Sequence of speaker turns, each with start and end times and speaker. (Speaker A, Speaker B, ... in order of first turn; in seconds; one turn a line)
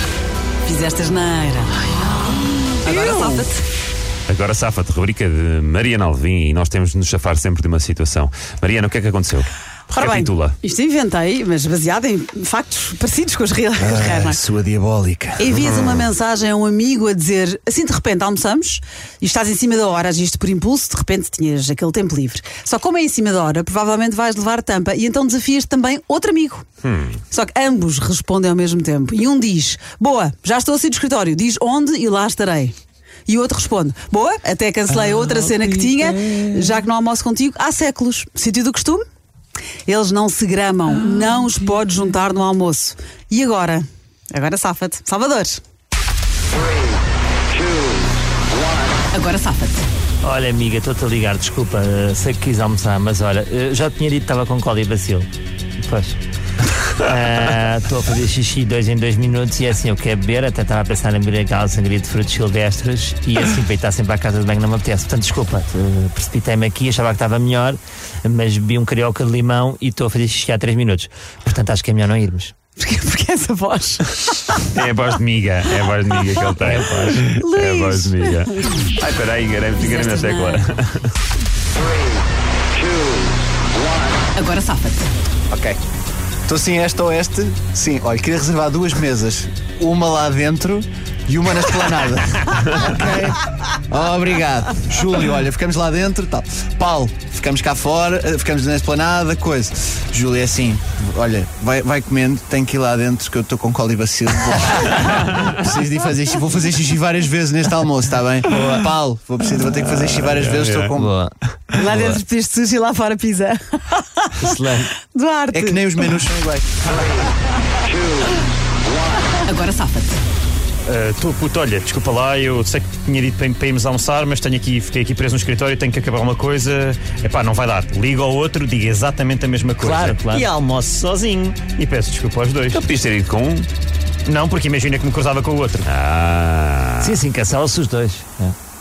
Speaker A: 0.6-3.6
Speaker B: 2.9-3.4
Speaker C: 4.3-10.6
Speaker A: 9.9-14.4
Speaker D: 13.8-15.9
Speaker A: 15.4-26.6
Speaker C: 26.8-27.2
Speaker A: 27.3-32.7
Speaker A: 33.3-39.0
Speaker E: 34.9-36.4
Speaker A: 39.9-45.6
Speaker A: 49.1-49.9
Speaker E: 50.2-55.3
Speaker E: 55.8-56.2
Speaker E: 57.0-72.5
Speaker A: 72.8-74.7
Speaker C: 74.7-81.1
Speaker E: 76.6-77.2
Speaker A: 77.2-78.8
Speaker A: 79.8-80.6
Speaker A: 84.3-85.1
Speaker D: 85.5-85.8
Speaker D: 86.5-111.1
Speaker C: 105.1-105.5
Speaker E: 108.5-108.8
Speaker C: 109.7-110.9
Speaker E: 110.9-112.2
Speaker A: 111.7-114.5
Speaker E: 114.4-114.9
Speaker A: 115.0-116.1
Speaker D: 115.5-117.2
Speaker A: 119.3-120.2
Speaker B: 120.8-132.8
Speaker E: 129.8-130.5
Speaker C: 132.7-133.7
Speaker B: 134.2-135.9
Speaker C: 135.8-137.2
Speaker E: 137.0-138.5